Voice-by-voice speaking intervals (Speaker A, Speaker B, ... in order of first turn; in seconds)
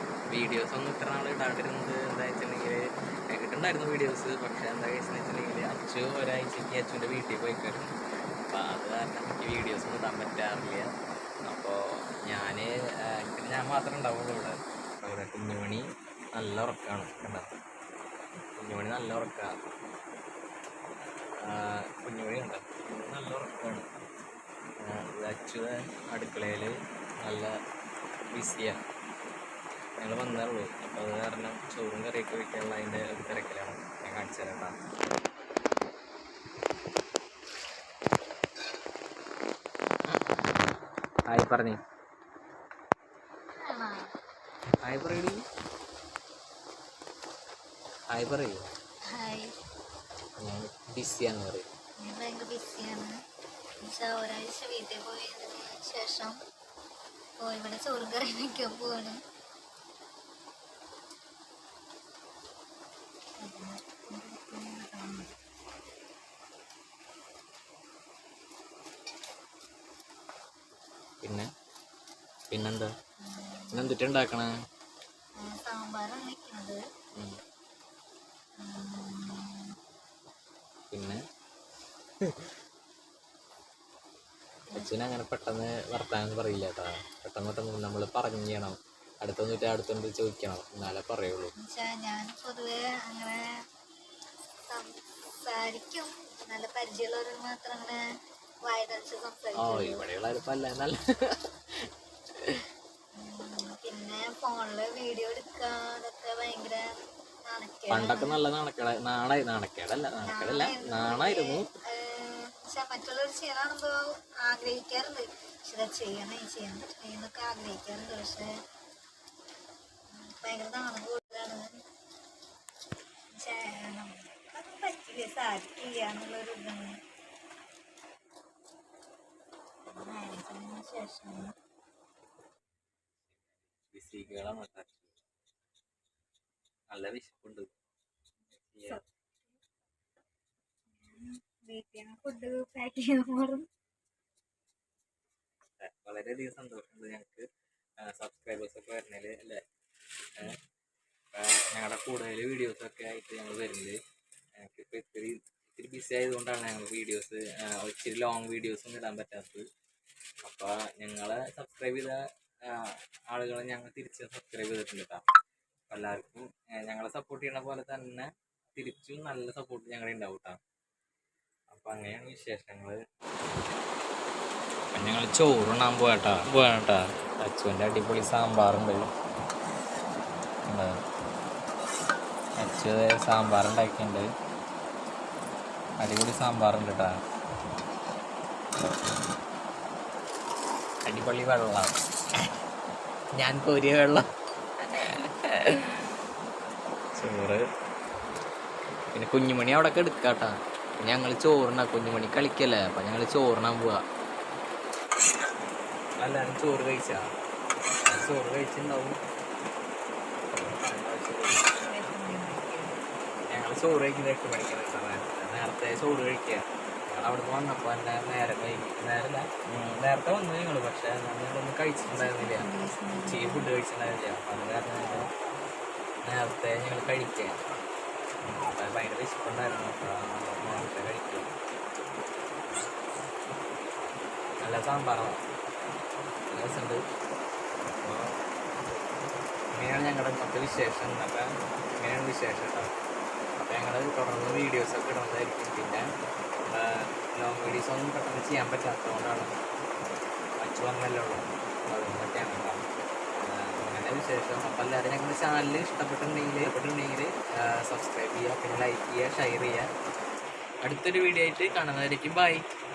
Speaker A: 0.3-7.9, 8.5-10.9, 11.4-17.4, 18.6-19.5, 21.4-23.9, 24.8-27.5, 28.3-28.8, 30.0-34.8, 41.3-41.8, 44.8-45.4, 48.1-48.6, 50.4-51.7, 72.5-72.9, 73.7-74.5, 80.9-81.2, 82.2-82.5, 84.7-91.5, 99.6-101.4, 107.9-111.6, 133.8-135.1, 136.9-137.7, 138.7-139.0, 145.8-147.5, 148.0-149.6, 151.3-154.0, 154.6-159.6, 160.4-165.2, 165.9-170.6, 171.7-173.0, 174.9-179.1, 180.7-180.9, 182.6-184.3, 186.0-187.2, 191.0-191.9, 193.4-194.2, 194.9-196.0, 197.2-197.6, 199.1-204.0, 206.2-207.2, 208.0-209.2, 210.5-211.9, 213.5-225.3, 226.2-227.6, 228.4-231.5, 234.6-235.4, 236.5-237.0, 237.9-238.3, 239.7-241.5, 242.0-242.9, 243.6-246.0, 246.7-249.5, 250.6-252.8, 253.4-259.9, 260.8-262.6
Speaker B: 43.5-44.1, 49.1-49.5, 52.0-53.1, 53.8-56.4, 57.4-59.2, 63.4-65.3, 73.2-74.0, 75.4-76.8, 78.6-79.7, 91.6-93.4, 94.7-98.0, 98.6-100.0, 103.2-106.8, 107.5-108.4, 110.2-118.5, 120.1-121.8, 123.3-127.0, 129.9-131.5, 140.9-143.7, 211.8-213.0, 222.0-223.7